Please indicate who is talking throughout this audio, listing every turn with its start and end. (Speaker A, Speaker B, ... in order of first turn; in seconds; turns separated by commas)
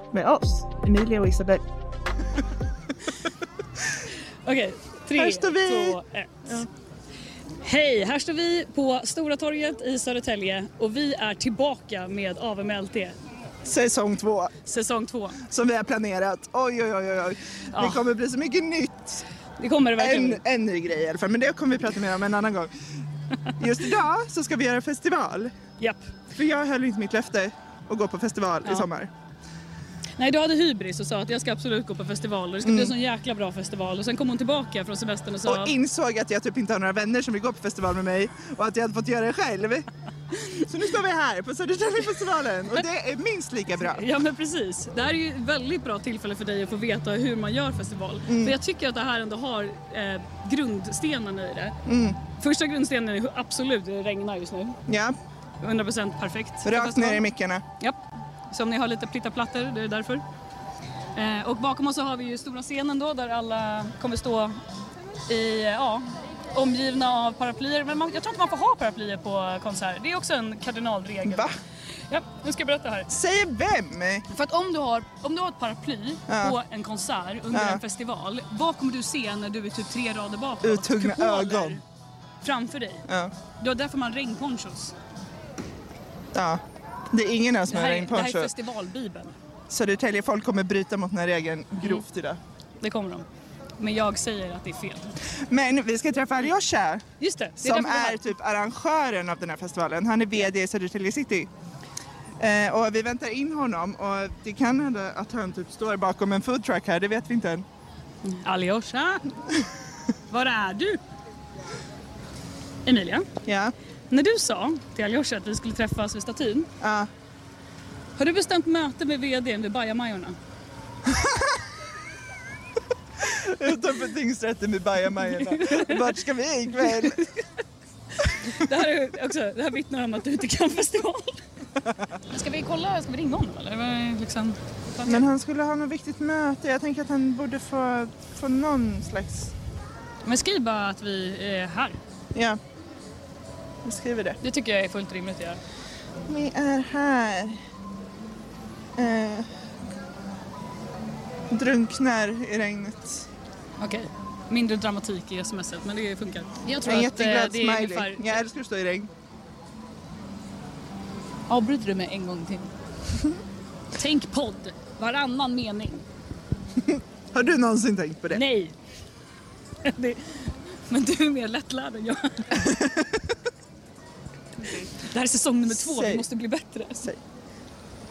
Speaker A: 0.1-1.6, Speaker B: 4.4-6.6, Speaker A: 5.2-6.7, Speaker B: 7.6-13.2, Speaker A: 13.6-14.5, Speaker B: 14.7-15.4, Speaker A: 15.5-19.2, Speaker B: 17.7-18.0, Speaker B: 19.6-20.4, Speaker A: 20.0-22.7, Speaker A: 23.6-25.5, Speaker A: 26.3-29.1, Speaker B: 30.2-35.7, Speaker A: 32.6-32.9, Speaker A: 35.5-39.9, Speaker A: 40.7-44.0, Speaker B: 43.8-51.8, Speaker A: 48.3-48.6, Speaker A: 51.9-52.2, Speaker B: 52.3-54.8, Speaker A: 54.9-55.2, Speaker B: 55.6-57.3, Speaker A: 56.6-57.6, Speaker B: 57.8-60.2, Speaker B: 61.1-64.6, Speaker B: 65.3-71.5, Speaker A: 71.3-71.5, Speaker B: 72.1-73.1, Speaker A: 73.1-74.2, Speaker B: 74.3-81.8, Speaker A: 76.3-76.6, Speaker A: 77.5-77.8, Speaker A: 80.6-81.8, Speaker B: 82.4-83.0, Speaker B: 83.6-84.9, Speaker A: 86.3-86.6, Speaker A: 87.1-88.5, Speaker B: 87.7-89.3, Speaker A: 89.7-92.4, Speaker B: 91.8-92.0, Speaker B: 92.8-93.3, Speaker B: 93.8-95.2, Speaker A: 95.5-97.0, Speaker B: 97.2-98.3, Speaker A: 97.6-101.5, Speaker A: 102.4-107.7, Speaker B: 108.2-109.2, Speaker B: 110.3-111.0, Speaker B: 112.8-113.3, Speaker A: 113.5-113.7, Speaker B: 114.1-116.7, Speaker A: 116.8-117.1, Speaker B: 118.2-120.4, Speaker A: 121.1-121.4, Speaker A: 123.2-127.2, Speaker B: 125.4-126.1, Speaker B: 126.8-127.1, Speaker B: 128.5-131.4, Speaker B: 132.3-135.3, Speaker A: 135.1-139.5, Speaker B: 140.2-142.0, Speaker A: 143.8-144.4, Speaker B: 144.4-145.6, Speaker A: 146.3-147.6, Speaker A: 149.0-149.5, Speaker A: 151.5-153.3, Speaker B: 153.8-158.4, Speaker A: 156.8-159.1, Speaker B: 161.5-162.7, Speaker B: 163.9-166.1, Speaker A: 166.9-168.4, Speaker B: 168.3-168.8, Speaker B: 169.8-172.8, Speaker B: 174.9-177.1, Speaker A: 175.7-176.3